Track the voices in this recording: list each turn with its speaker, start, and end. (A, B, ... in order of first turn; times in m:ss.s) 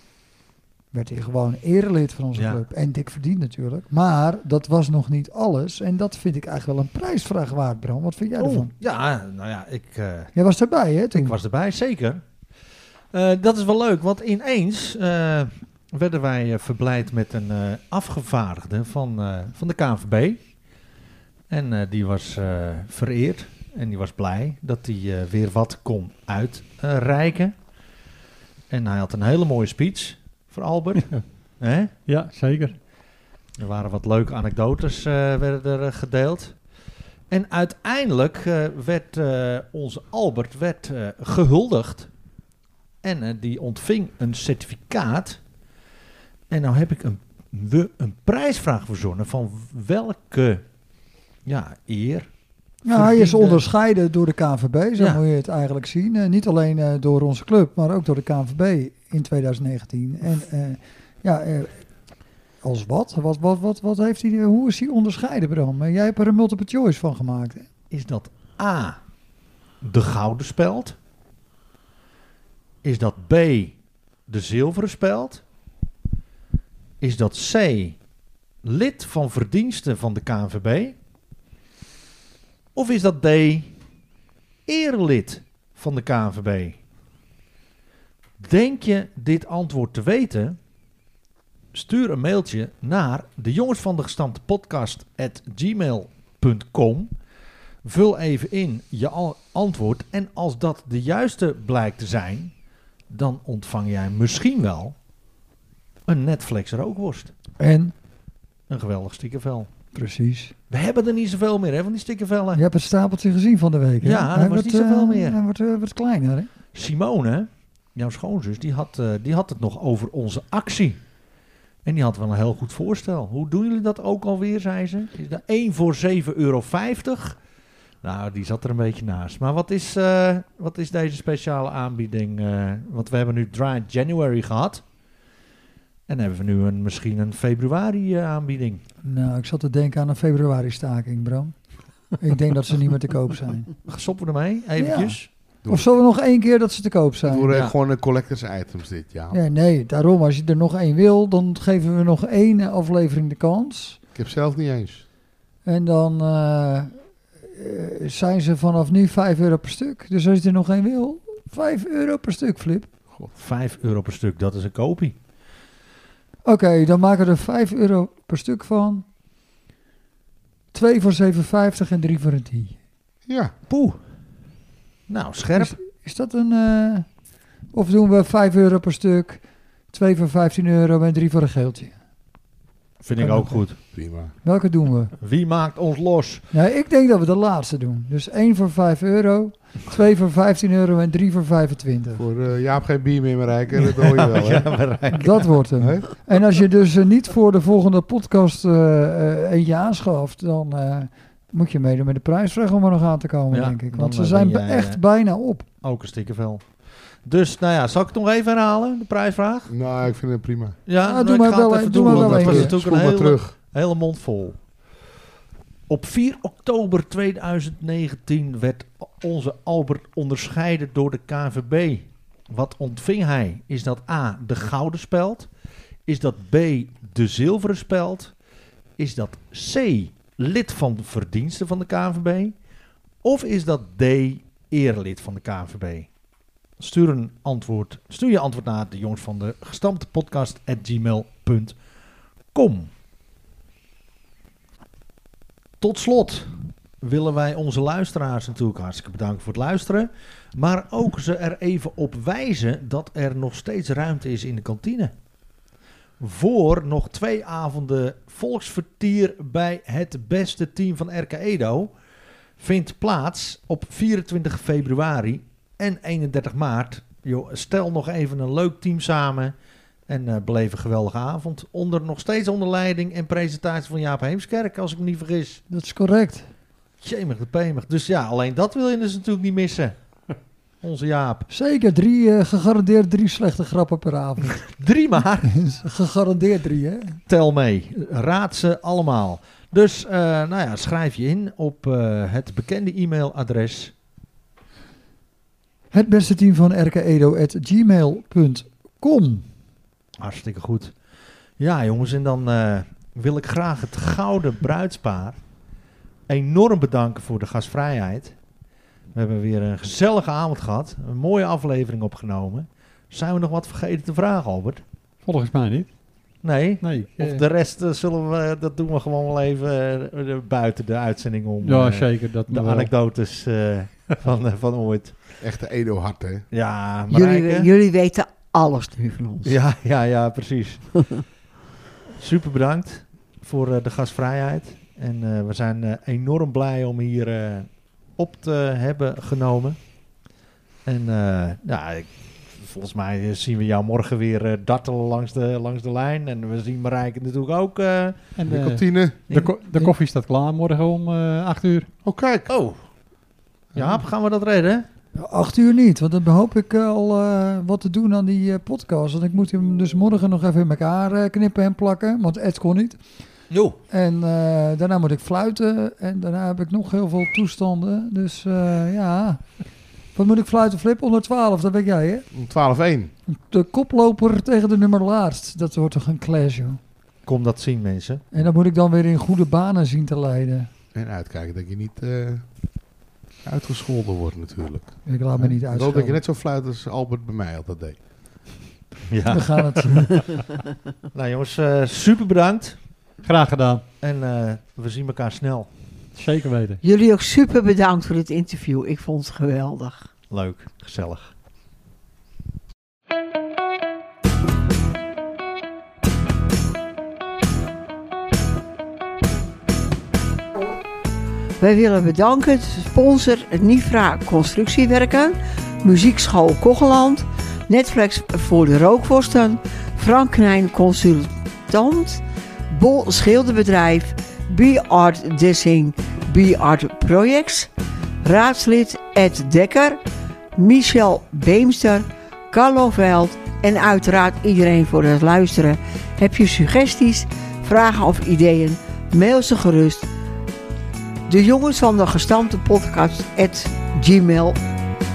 0:00.9-0:08.7 A
0:08.4-0:10.3 B
0:10.4-0:11.4 A
0:11.1-0:12.2 B
0:13.1-0:20.4 B
0:21.5-0:27.5 B
0:28.7-0:31.9 B
0:32.1-0:32.8 C
0:33.6-0:36.6 B
0:37.3-0:42.1 B
0:43.0-0:45.4 B
0:46.5-0:50.6 B
0:51.4-0:52.3 B
0:52.8-1:01.8 A
0:52.9-0:53.6 B
1:02.6-1:07.7 A
1:07.9-1:09.0 B
1:09.8-1:11.0 B
1:12.8-1:13.7 B
1:14.3-1:15.4 B
1:17.0-1:18.0 B
1:18.6-1:21.0 B
1:22.7-1:23.7 B
1:24.7-1:26.8 B
1:28.4-1:30.6 B
1:31.7-1:37.1 B
1:37.8-1:42.5 B
1:43.1-1:45.0 B
1:46.1-1:47.3 B
1:47.6-1:47.9 A
1:48.7-1:49.7 B
1:50.0-1:50.5 A
1:50.7-1:52.6 B
1:52.6-1:56.5 A
1:54.0-1:55.4 B
1:56.7-2:01.0 B
2:01.8-2:07.4 B
2:08.0-2:14.8 B
2:16.1-2:18.8 B
2:19.0-2:21.6 A
2:22.2-2:23.7 A
2:23.9-2:25.3 B
2:24.8-2:27.5 A
2:27.2-2:29.4 D
2:29.3-2:34.0 A
2:34.1-2:35.0 D
2:35.6-2:42.9 A
2:43.3-2:45.2 B
2:46.4-2:49.0 A
2:50.7-2:52.8 A
2:53.3-2:53.5 D
2:53.7-2:54.0 B
2:55.1-2:55.8 B
2:55.5-2:57.1 A
2:57.7-3:01.9 A
3:03.0-3:03.8 B
3:03.2-3:05.1 A
3:03.9-3:04.3 D
3:05.2-3:06.4 B
3:06.5-3:12.2 A
3:12.1-3:14.7 D
3:13.9-3:15.6 B
3:15.1-3:25.7 A
3:15.8-3:16.1 D
3:23.5-3:25.0 B
3:25.8-3:26.7 B
3:27.2-3:29.7 B
3:29.7-3:30.8 D
3:30.9-3:34.6 B
3:31.0-3:32.7 A
3:32.0-3:33.5 D
3:35.9-3:45.5 B
3:46.1-3:48.3 B
3:49.0-3:52.6 B
3:53.2-3:56.1 B
3:56.8-4:01.7 B
4:02.5-4:02.9 B
4:05.8-4:06.5 B
4:07.0-4:15.1 B
4:16.2-4:21.9 B
4:22.6-4:29.5 B
4:30.1-4:35.6 B
4:35.7-4:36.5 A
4:37.0-4:40.0 B
4:40.8-4:41.5 B
4:41.5-4:44.6 A
4:44.5-4:45.5 B
4:45.4-4:47.2 A
4:47.3-4:53.9 B
4:55.9-4:59.5 A
5:00.2-5:00.9 B
5:01.6-5:05.4 B
5:06.3-5:08.4 B
5:09.1-5:14.8 B
5:15.2-5:15.9 C
5:16.4-5:25.4 B
5:16.8-5:17.4 C
5:21.6-5:22.9 C
5:25.4-5:26.4 D
5:26.5-5:27.7 B
5:27.1-5:29.5 E
5:29.4-5:31.0 B
5:32.2-5:39.8 B
5:40.9-5:48.3 B
5:48.4-5:51.9 C
5:48.5-5:49.2 D
5:52.0-5:52.5 D
5:52.5-5:52.8 B
5:53.7-5:54.0 D
5:53.7-5:54.9 B
5:55.2-6:03.0 A
6:03.5-6:03.8 B
6:03.9-6:09.4 A
6:10.1-6:12.3 A
6:12.3-6:13.1 D
6:13.3-6:16.8 A
6:17.3-6:18.2 B
6:18.3-6:20.7 A
6:20.9-6:22.4 D
6:23.4-6:28.0 D
6:25.1-6:26.2 A
6:29.1-6:30.4 B
6:29.3-6:30.2 A
6:31.1-6:32.8 B
6:33.2-6:33.8 C
6:34.0-6:35.7 B
6:36.1-6:36.8 C
6:36.8-6:40.1 E
6:40.3-6:41.3 B
6:51.6-7:07.7 E
7:08.2-7:10.0 E
7:10.6-7:20.1 E
7:21.3-7:24.6 E